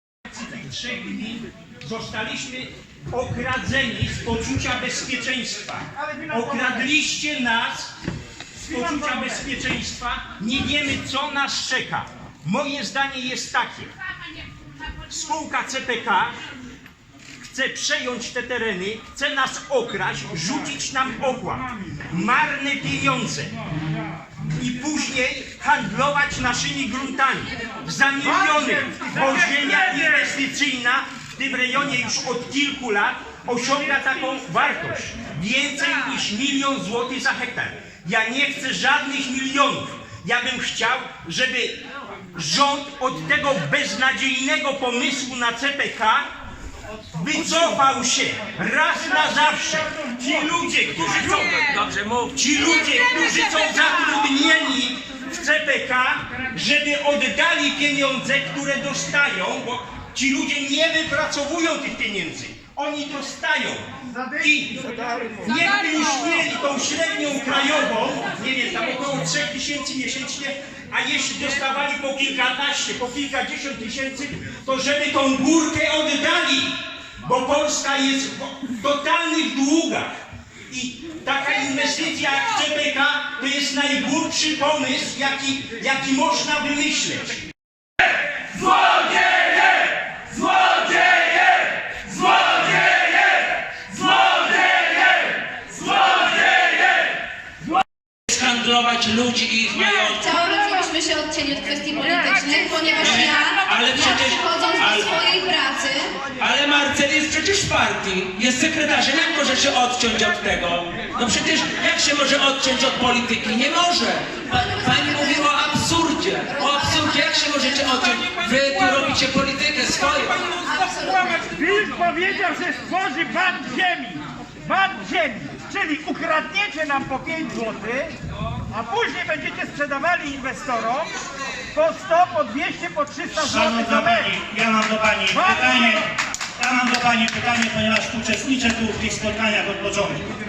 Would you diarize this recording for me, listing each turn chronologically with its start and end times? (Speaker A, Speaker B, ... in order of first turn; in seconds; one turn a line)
Speaker A: 0.2-7.9
Speaker A: 8.6-13.9
Speaker A: 15.1-16.4
Speaker A: 17.4-23.6
Speaker A: 24.5-46.3
Speaker A: 47.1-51.7
Speaker B: 51.2-53.3
Speaker A: 52.3-80.1
Speaker A: 80.7-87.5
Speaker B: 95.7-96.7
Speaker B: 98.3-100.4
Speaker C: 99.8-106.2
Speaker B: 103.0-105.2
Speaker B: 106.4-120.5
Speaker C: 114.5-115.9
Speaker C: 116.5-117.8
Speaker C: 120.3-122.2
Speaker D: 121.6-128.2
Speaker D: 128.7-131.1
Speaker D: 131.7-134.3
Speaker E: 133.3-140.3
Speaker D: 135.4-135.9